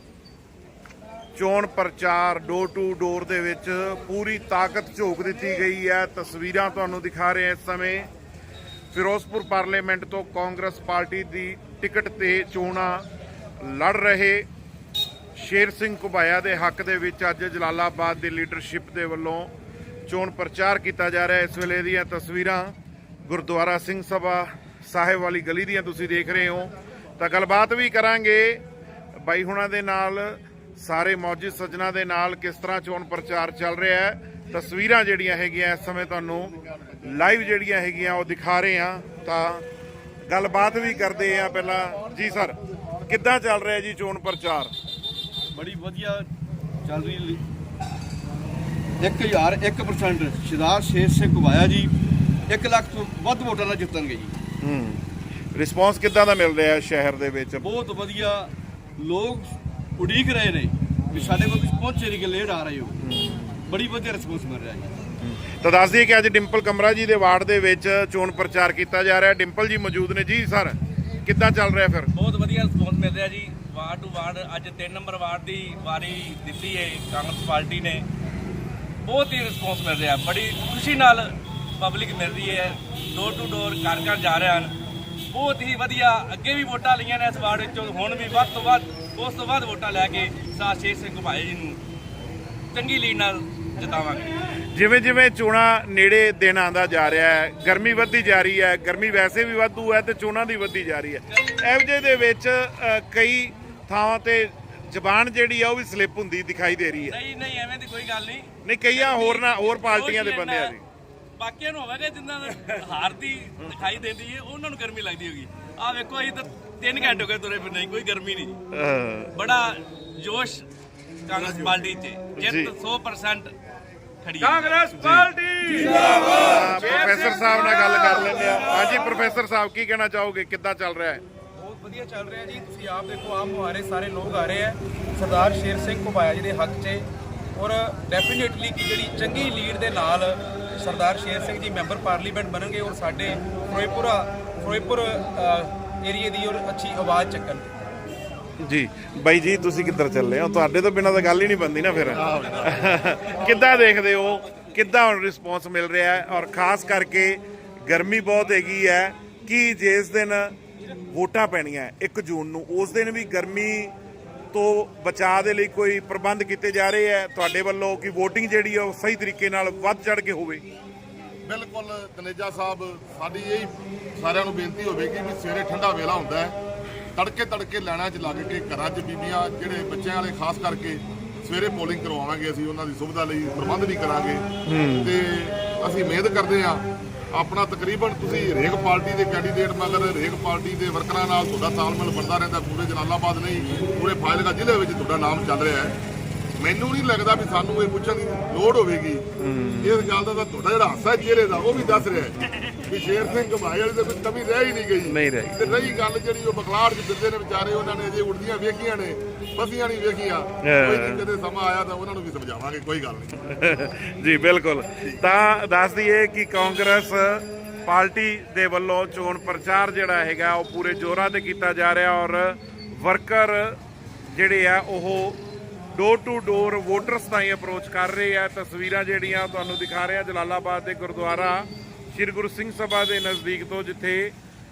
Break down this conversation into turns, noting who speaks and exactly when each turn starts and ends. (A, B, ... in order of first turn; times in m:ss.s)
0:01.3-0:08.1 A
0:08.9-0:13.0 A
0:13.6-0:14.4 A
0:15.3-0:19.5 A
0:20.1-0:22.7 A
0:23.2-0:28.6 A
0:29.2-0:39.6 A
0:40.3-0:42.6 A
0:43.1-0:44.7 A
0:45.5-0:46.2 B
0:46.8-0:47.4 B
0:49.0-0:51.9 B
0:52.5-0:54.3 B
0:54.6-0:57.7 A
0:57.6-0:58.5 B
0:59.0-0:59.4 B
1:00.0-1:00.7 B
1:01.1-1:01.4 A
1:01.3-1:02.9 B
1:03.0-1:03.6 A
1:03.7-1:04.9 B
1:05.2-1:12.1 A
1:12.1-1:18.0 C
1:19.0-1:24.7 C
1:25.3-1:31.8 C
1:32.7-1:34.3 C
1:34.7-1:47.2 A
1:47.1-1:50.8 C
1:48.6-1:50.8 A
1:51.4-1:58.6 C
1:58.7-1:59.3 A
1:59.3-2:00.6 C
2:01.2-2:03.5 C
2:02.4-2:02.7 A
2:04.2-2:08.6 C
2:04.4-2:05.3 A
2:05.8-2:07.0 D
2:05.9-2:11.2 A
2:11.6-2:27.7 D
2:28.6-2:40.6 A
2:32.1-2:32.8 E
2:41.1-2:43.9 A
2:44.5-2:50.6 A
2:51.4-2:56.6 E
2:57.1-3:04.4 E
3:04.6-3:05.1 A
3:05.0-3:15.9 E
3:16.6-3:19.2 E
3:19.4-3:20.1 A
3:19.8-3:33.4 E
3:21.7-3:22.1 A
3:25.0-3:26.0 A
3:30.6-3:31.3 A
3:33.4-3:43.8 A
3:44.3-3:45.4 A
3:45.9-3:54.3 A